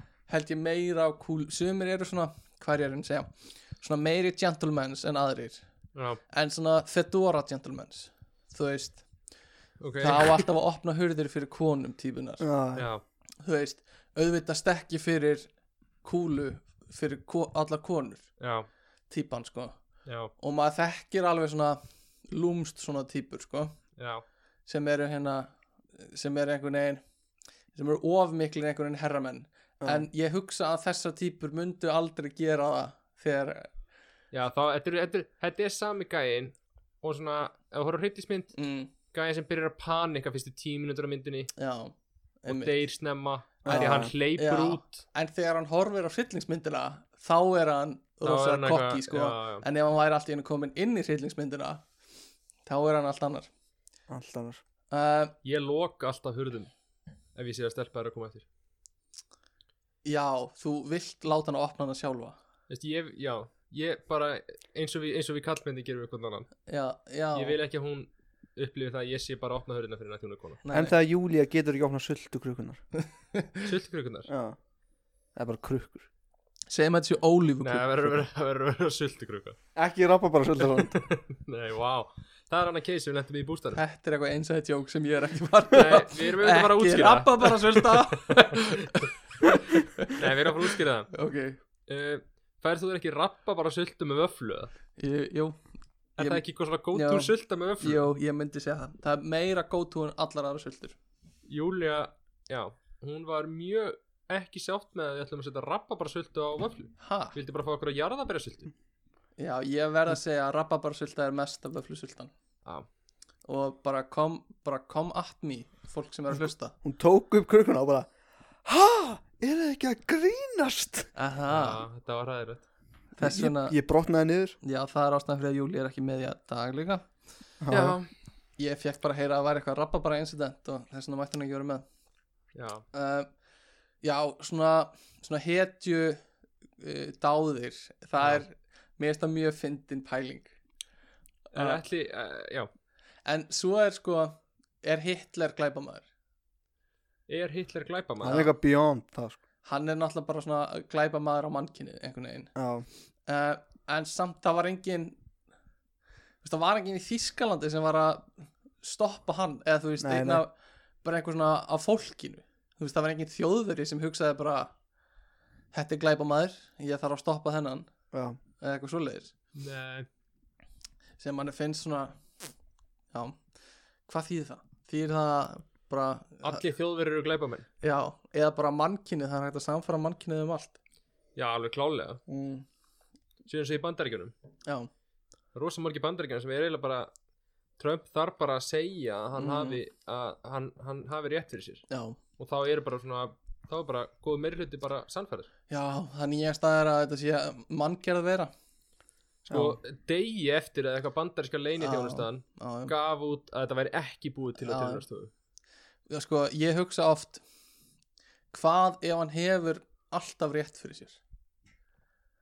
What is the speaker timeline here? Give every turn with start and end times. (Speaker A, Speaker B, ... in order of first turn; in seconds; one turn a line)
Speaker A: 0.3-5.7
Speaker B: 5.9-6.2
Speaker A: 6.3-9.0
Speaker B: 9.8-10.4
Speaker A: 10.0-12.4
Speaker C: 12.4-12.9
Speaker B: 12.8-13.0
Speaker A: 13.4-15.5
Speaker A: 16.0-18.3
Speaker B: 18.4-18.7
Speaker A: 19.1-19.8
Speaker B: 20.1-20.3
Speaker A: 20.4-23.8
Speaker B: 24.0-24.2
Speaker A: 24.6-27.0
Speaker A: 27.7-33.7
Speaker C: 29.8-30.1
Speaker B: 34.3-38.5
Speaker A: 38.5-38.9
Speaker B: 39.1-41.5
Speaker A: 41.6-42.8
Speaker B: 42.5-45.0
Speaker C: 43.6-44.1
Speaker A: 43.7-51.9
Speaker B: 48.2-49.6
Speaker A: 52.6-53.5
Speaker C: 54.1-54.6
Speaker A: 54.9-55.3
Speaker B: 55.4-56.7
Speaker B: 57.3-58.4
Speaker A: 60.0-62.4
Speaker B: 62.7-66.5
Speaker A: 66.7-67.6
Speaker B: 67.3-70.6
Speaker A: 70.6-70.9
Speaker C: 70.7-72.8
Speaker A: 73.3-73.7
Speaker B: 73.6-74.3
Speaker C: 74.3-74.6
Speaker C: 75.3-76.1
Speaker A: 76.7-78.2
Speaker B: 77.6-79.6
Speaker C: 79.7-81.0
Speaker B: 80.9-83.8
Speaker A: 83.7-91.6
Speaker B: 85.7-89.0
Speaker B: 90.0-91.1
Speaker B: 91.9-94.7
Speaker A: 95.0-95.6
Speaker B: 96.2-98.0
Speaker A: 96.2-96.4
Speaker A: 96.9-101.0
Speaker B: 101.5-108.7
Speaker A: 107.0-107.3
Speaker A: 109.4-112.3
Speaker A: 113.5-116.7
Speaker C: 116.8-118.1
Speaker C: 118.6-121.1
Speaker A: 121.1-121.8
Speaker B: 121.5-122.6
Speaker A: 123.1-123.8
Speaker C: 123.2-124.5
Speaker A: 124.6-127.1
Speaker C: 127.6-128.0
Speaker B: 127.7-128.1
Speaker A: 128.6-131.8
Speaker B: 132.5-132.8
Speaker A: 132.9-133.3
Speaker A: 134.0-136.2
Speaker A: 136.8-140.5
Speaker A: 141.5-141.8
Speaker B: 141.5-142.7
Speaker A: 143.2-146.1
Speaker B: 147.3-148.5
Speaker C: 148.2-149.4
Speaker A: 149.6-152.5
Speaker C: 152.6-152.9
Speaker A: 153.2-155.2
Speaker A: 156.4-160.5
Speaker C: 160.0-160.4
Speaker A: 161.0-164.7
Speaker A: 165.7-167.9
Speaker C: 168.1-168.4
Speaker A: 168.6-169.3
Speaker B: 169.6-170.1
Speaker A: 171.2-172.3
Speaker A: 173.1-173.4
Speaker A: 174.1-176.6
Speaker B: 176.4-177.7
Speaker A: 177.8-180.8
Speaker B: 181.3-182.2
Speaker A: 182.3-182.7
Speaker B: 183.4-184.3
Speaker B: 185.5-187.1
Speaker B: 187.8-191.8
Speaker A: 189.3-189.8
Speaker A: 191.9-192.2
Speaker B: 192.4-195.5
Speaker A: 195.7-198.5
Speaker C: 199.5-199.8
Speaker B: 199.5-205.3
Speaker A: 201.8-202.9
Speaker A: 204.6-205.0
Speaker A: 206.1-207.4
Speaker A: 208.5-211.2